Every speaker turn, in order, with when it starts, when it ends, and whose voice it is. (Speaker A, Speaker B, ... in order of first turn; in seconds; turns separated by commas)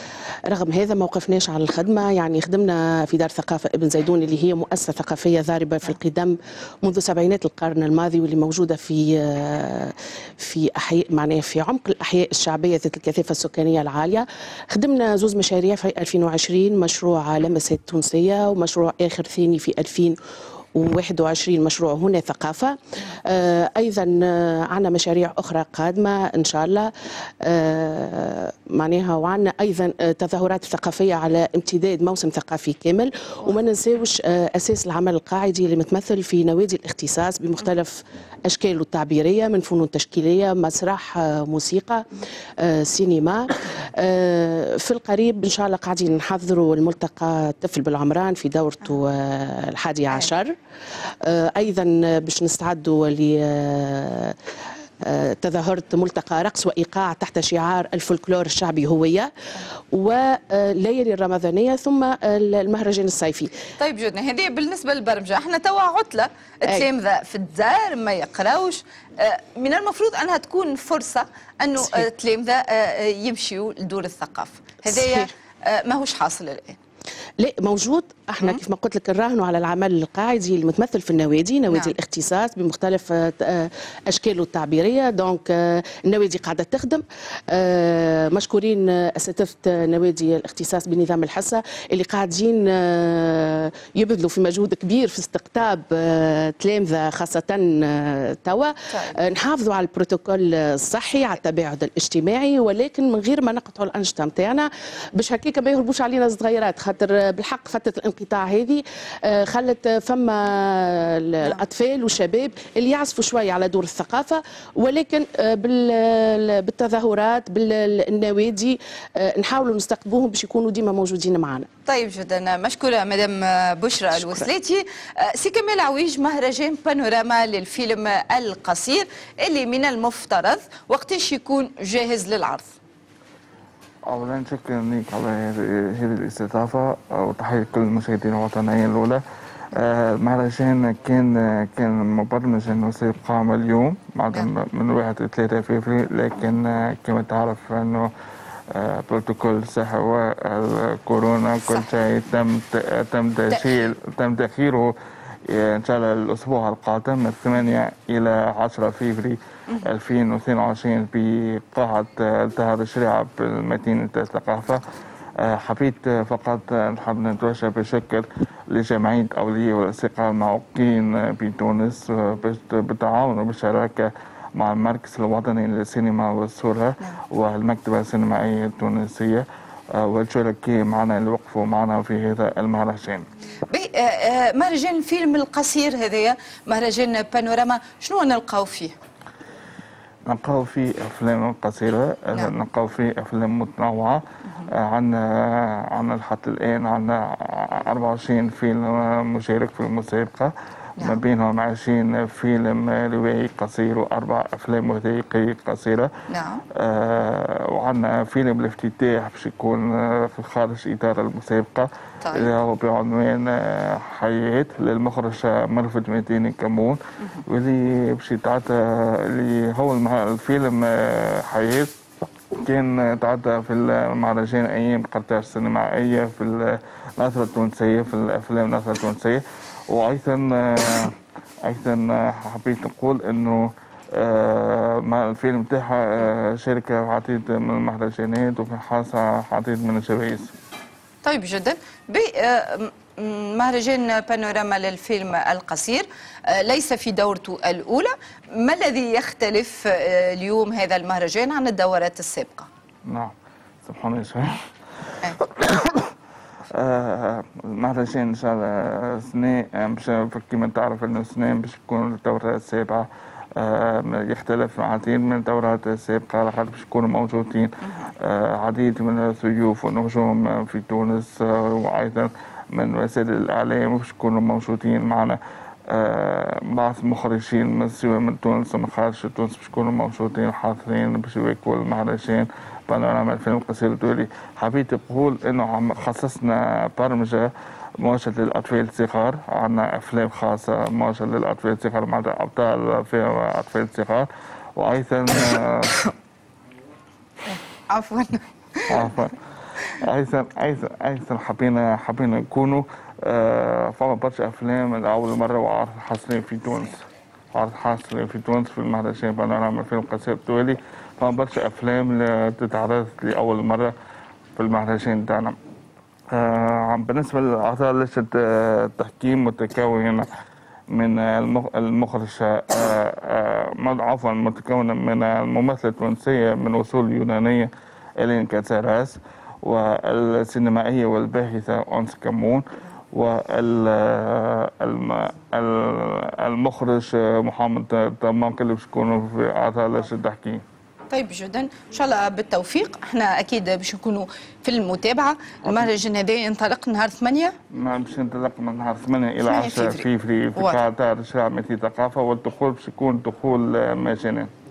Speaker A: 0.5-20.2, Speaker A: 20.8-26.9, Speaker A: 27.4-42.1, Speaker A: 42.6-50.5, Speaker A: 51.2-54.4, Speaker A: 55.0-59.3, Speaker A: 59.9-63.6, Speaker B: 63.8-76.8, Speaker A: 71.8-72.1, Speaker A: 74.9-75.3, Speaker A: 77.4-121.7, Speaker B: 121.9-132.8, Speaker A: 124.1-124.5, Speaker C: 134.1-139.2, Speaker C: 139.7-148.1, Speaker C: 148.7-154.9, Speaker B: 151.6-151.9, Speaker B: 153.5-153.9, Speaker C: 155.5-164.8, Speaker C: 165.4-183.3, Speaker B: 183.7-188.9, Speaker C: 190.3-206.1, Speaker B: 206.3-206.6, Speaker C: 206.7-221.9, Speaker B: 212.2-212.5, Speaker C: 222.6-231.2, Speaker C: 231.7-240.5, Speaker B: 241.2-252.7, Speaker C: 253.1-254.6, Speaker C: 255.3-256.1, Speaker C: 256.8-275.4, Speaker C: 275.9-287.5, Speaker C: 288.0-296.0, Speaker B: 297.4-299.1, Speaker C: 298.9-299.3, Speaker C: 300.0-307.0, Speaker C: 307.6-313.9, Speaker C: 314.6-315.6, Speaker C: 316.3-320.3, Speaker C: 320.9-327.7, Speaker C: 328.2-340.6, Speaker B: 341.1-347.6, Speaker C: 347.7-354.5, Speaker B: 349.4-350.8